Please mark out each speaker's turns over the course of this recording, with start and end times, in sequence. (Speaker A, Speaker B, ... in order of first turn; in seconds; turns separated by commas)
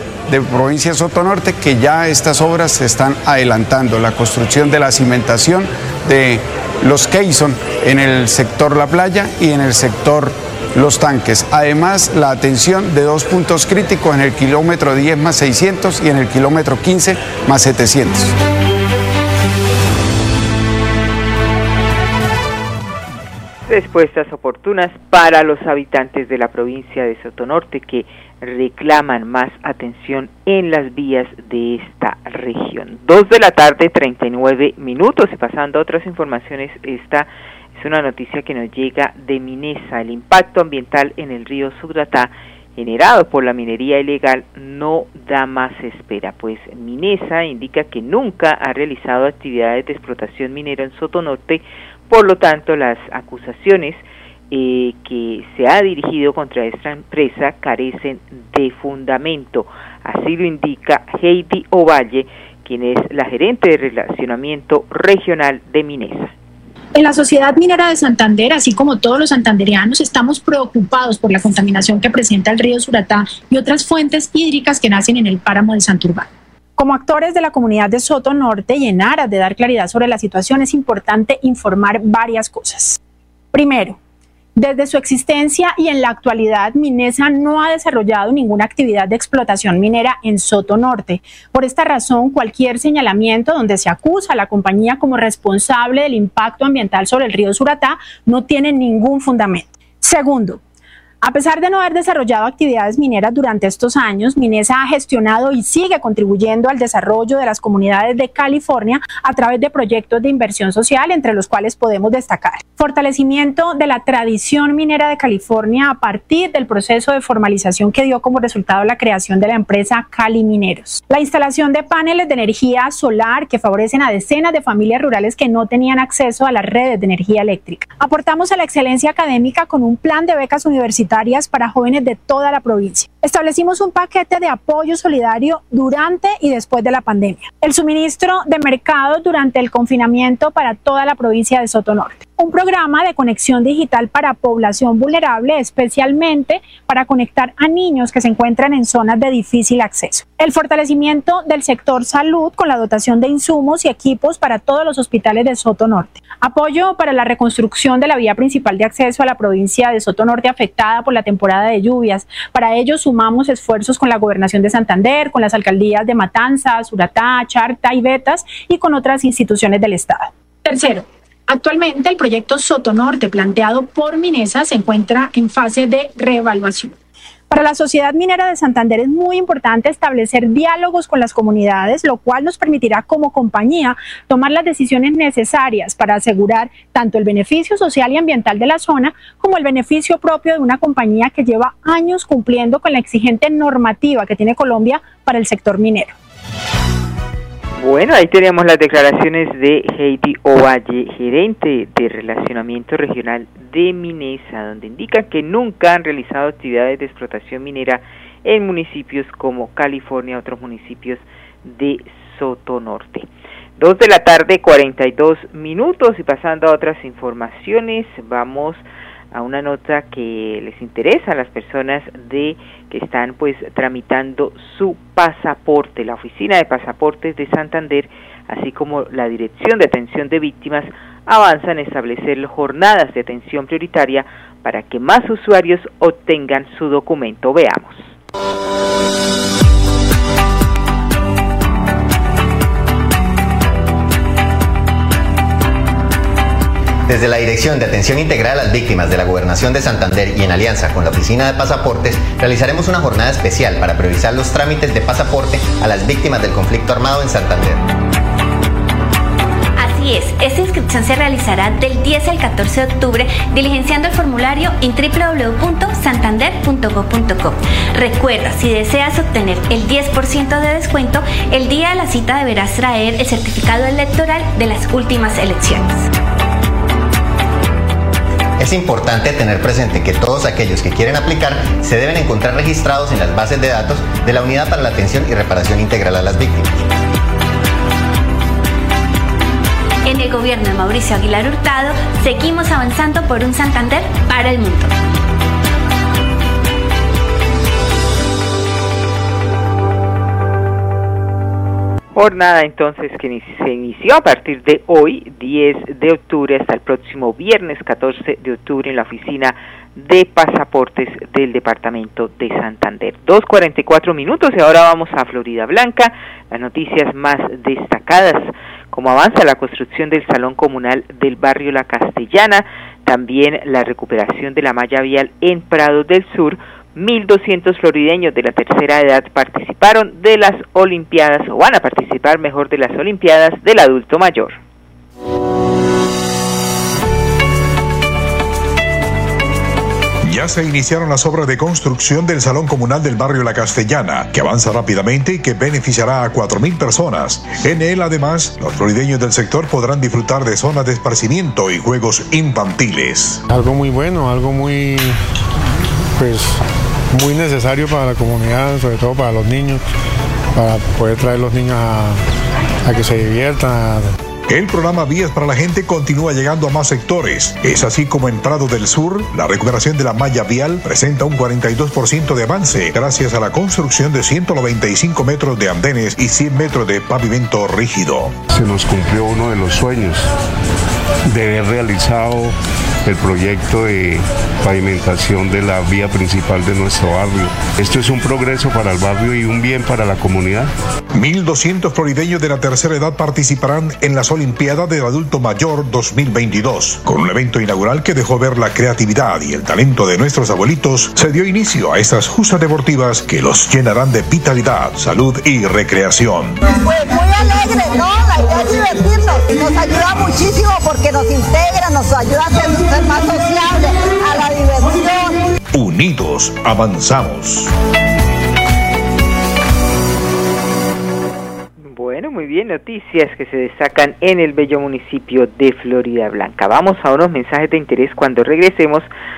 Speaker A: 0.3-18.4, Speaker B: 23.7-66.3, Speaker C: 67.0-83.0, Speaker C: 83.5-84.0, Speaker C: 84.6-100.6, Speaker C: 101.2-177.0, Speaker C: 177.5-196.2, Speaker B: 197.8-213.3, Speaker B: 213.8-238.1, Speaker D: 247.1-257.8, Speaker E: 259.8-276.1, Speaker D: 278.6-286.8, Speaker E: 290.1-294.9, Speaker B: 302.1-334.6, Speaker F: 340.2-353.4, Speaker G: 353.5-355.2, Speaker G: 356.2-359.8, Speaker G: 360.5-362.2, Speaker G: 362.8-364.1, Speaker F: 364.5-378.4, Speaker H: 378.5-380.3, Speaker H: 381.3-390.7, Speaker F: 391.1-406.6, Speaker I: 406.7-415.4, Speaker F: 415.7-417.7, Speaker B: 421.8-429.1